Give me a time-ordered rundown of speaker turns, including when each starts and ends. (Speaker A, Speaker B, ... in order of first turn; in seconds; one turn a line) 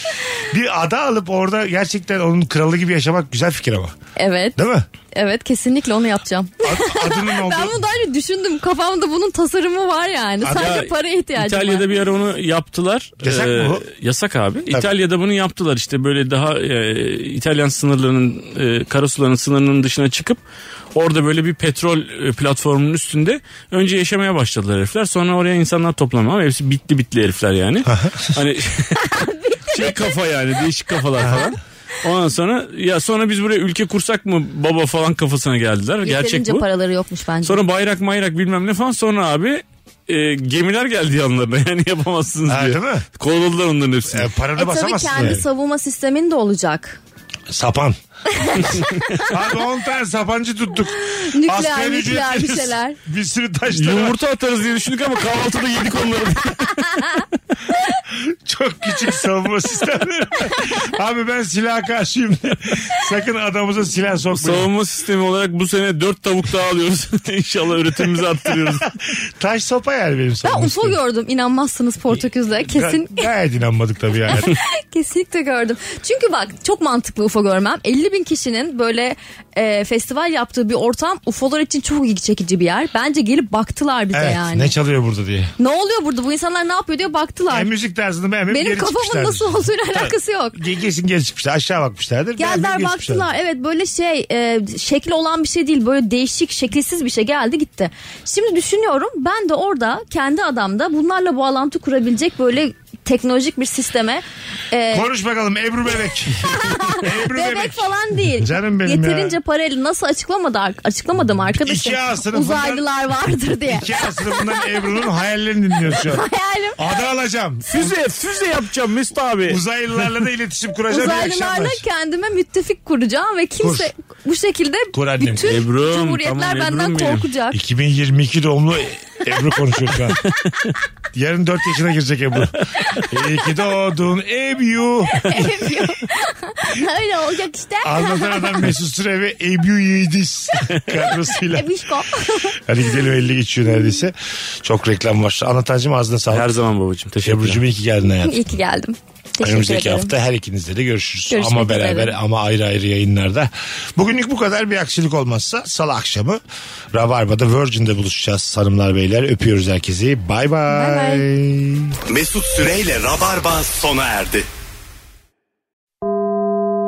Speaker A: 0.4-3.9
Speaker B: 4.2-4.6
Speaker A: 4.6-4.9
Speaker B: 5.1-11.9
Speaker A: 6.6-7.8
Speaker C: 10.5-20.4
Speaker A: 13.2-13.8
Speaker C: 20.9-36.6
Speaker A: 27.9-28.3
Speaker B: 29.0-30.2
Speaker B: 36.0-37.6
Speaker C: 37.4-44.3
Speaker A: 42.5-43.0
Speaker A: 44.1-45.4
Speaker B: 44.6-47.0
Speaker A: 47.5-48.0
Speaker B: 48.3-49.2
Speaker A: 49.3-54.2
Speaker B: 51.0-53.0
Speaker C: 53.7-57.0
Speaker A: 58.1-64.7
Speaker C: 64.3-68.9
Speaker A: 68.5-71.0
Speaker B: 70.4-73.3
Speaker A: 72.7-74.5
Speaker B: 74.3-84.7
Speaker A: 84.1-85.5
Speaker B: 85.6-87.7
Speaker A: 87.5-93.3
Speaker B: 88.5-90.6
Speaker B: 92.4-105.1
Speaker A: 104.9-109.4
Speaker B: 106.5-114.5
Speaker A: 111.5-112.9
Speaker A: 113.5-116.3
Speaker B: 115.9-116.8
Speaker A: 116.8-117.9
Speaker C: 117.7-119.6
Speaker A: 119.5-121.8
Speaker B: 120.9-127.6
Speaker A: 123.6-123.9
Speaker A: 124.9-125.5
Speaker C: 125.4-127.3
Speaker A: 127.5-130.2
Speaker C: 130.3-130.7
Speaker A: 131.1-135.9
Speaker B: 135.1-138.7
Speaker A: 137.8-141.7
Speaker B: 141.5-142.6
Speaker A: 142.7-146.5
Speaker C: 146.3-147.6
Speaker A: 147.2-148.5
Speaker B: 148.2-150.1
Speaker A: 149.4-156.4
Speaker B: 151.3-152.2
Speaker A: 156.9-161.9
Speaker B: 160.7-161.3
Speaker D: 162.1-164.5